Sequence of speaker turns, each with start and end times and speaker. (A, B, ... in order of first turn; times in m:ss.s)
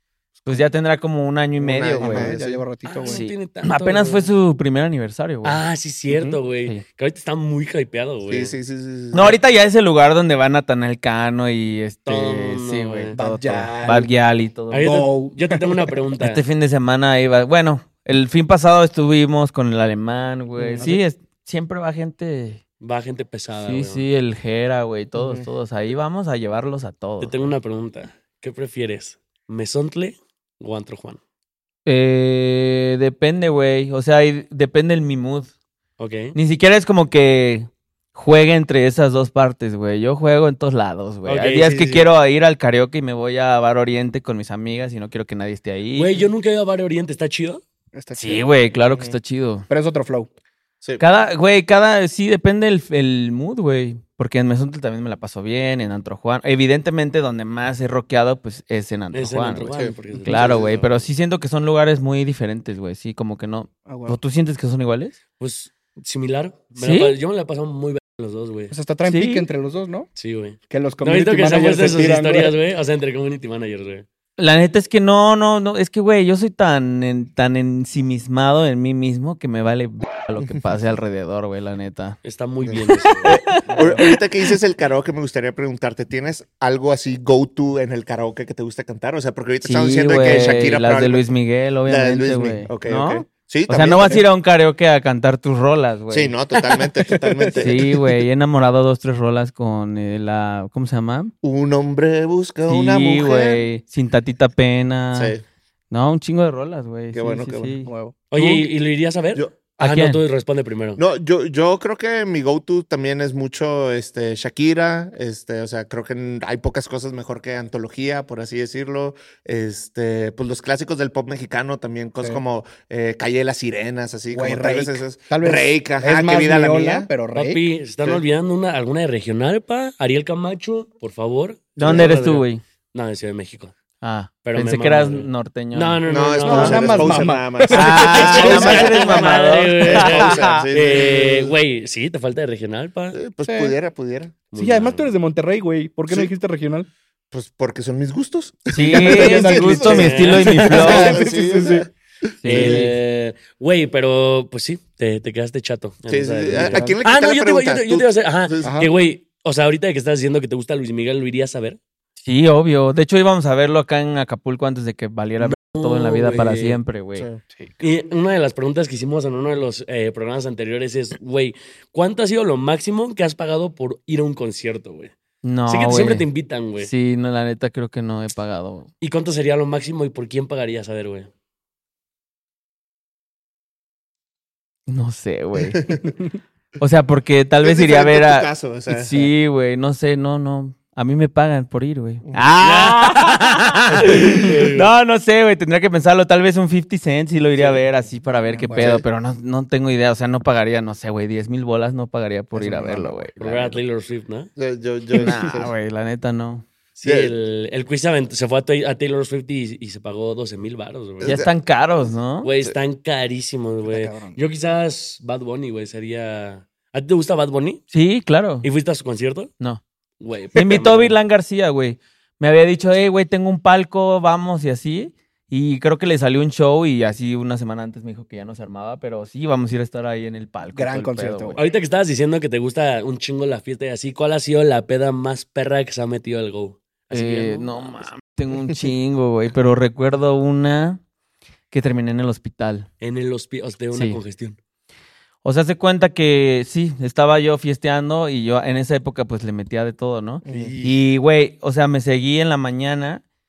0:00.5-0:02.4 A
0:01.6-0:02.6 B
0:02.0-0:03.2 C
0:02.8-0:04.3 D
0:03.1-0:05.6 A
0:05.4-0:08.6 D
0:06.1-0:06.4 C
0:08.2-0:09.4 B
0:09.1-0:14.9 A
0:12.1-0:13.2 D
0:13.2-0:14.1 C
0:14.7-0:16.4 D
0:14.8-0:16.0 C
0:16.2-0:22.6 A
0:20.7-0:21.0 C
0:22.8-0:24.0 D
0:23.6-0:27.5 A
0:25.2-0:25.5 B
0:27.2-0:31.2 D
0:31.9-0:35.5 A
0:36.0-0:36.4 D
0:36.3-0:46.2 A
0:41.2-0:42.1 D
0:45.9-0:47.6 D
0:47.9-0:48.5 C
0:48.2-0:49.7 A
0:48.9-0:49.2 B
0:49.7-0:50.3 C
0:51.0-1:05.2 A
0:59.1-1:00.9 D
0:59.7-1:00.8 B
1:03.9-1:04.2 C
1:05.4-1:08.7 D
1:06.8-1:07.2 A
1:08.7-1:10.1 C
1:09.1-1:09.5 A
1:10.2-1:14.0 D
1:10.7-1:12.6 C
1:14.4-1:22.2 A
1:22.2-1:23.4 D
1:22.7-1:31.3 B
1:22.9-1:24.2 A
1:29.6-1:36.3 A
1:31.9-1:34.2 B
1:36.1-1:38.0 B
1:37.1-1:38.0 C
1:37.6-1:41.3 A
1:41.4-1:43.6 B
1:42.7-1:45.4 A
1:45.1-1:45.4 B
1:45.9-1:48.6 A
1:47.1-1:47.8 B
1:47.9-1:48.2 C
1:48.3-1:51.0 D
1:49.8-1:50.2 A
1:51.0-2:07.1 B
2:04.3-2:07.6 C
2:07.3-2:13.7 D
2:11.8-2:12.6 A
2:11.8-2:12.1 B
2:14.0-2:16.0 A
2:14.4-2:17.3 D
2:16.0-2:21.5 B
2:16.4-2:18.8 C
2:17.7-2:20.7 A
2:18.0-2:23.2 D
2:23.1-2:24.4 B
2:23.4-2:23.8 C
2:24.5-2:25.1 D
2:24.6-2:26.9 C
2:27.3-2:31.9 B
2:28.7-2:31.2 A
2:28.8-2:31.9 C
2:29.8-2:30.8 D
2:32.4-2:32.9 A
2:32.4-2:32.9 B
2:32.5-2:41.8 D
2:36.1-2:38.8 B
2:36.5-2:37.0 C
2:38.6-2:38.9 C
2:42.2-2:47.3 A
2:45.4-2:46.8 D
2:47.8-2:55.1 D
2:55.4-2:56.3 A
2:55.7-2:56.9 D
2:56.8-2:58.9 A
2:59.0-3:01.3 D
3:04.9-3:05.9 A
3:05.8-3:06.1 B
3:06.8-3:23.8 A
3:07.6-3:09.3 B
3:12.2-3:12.5 B
3:12.6-3:14.9 D
3:18.5-3:19.0 C
3:18.8-3:19.0 B
3:22.6-3:23.2 C
3:23.4-3:24.5 D
3:24.6-3:25.7 B
3:25.2-3:26.6 A
3:27.0-3:31.4 D
3:27.0-3:27.3 B
3:31.2-3:31.5 B
3:31.2-3:32.5 A
3:32.4-3:37.8 D
3:33.9-3:34.4 C
3:37.9-3:38.7 A
3:38.6-3:39.5 D
3:40.2-3:41.2 D
3:40.6-3:51.6 A
3:50.7-3:51.6 C
3:51.6-3:58.1 D
3:57.1-4:01.0 A
4:01.7-4:02.9 A
4:03.0-4:04.6 D
4:03.9-4:04.2 A
4:05.4-4:13.2 A
4:10.4-4:10.9 B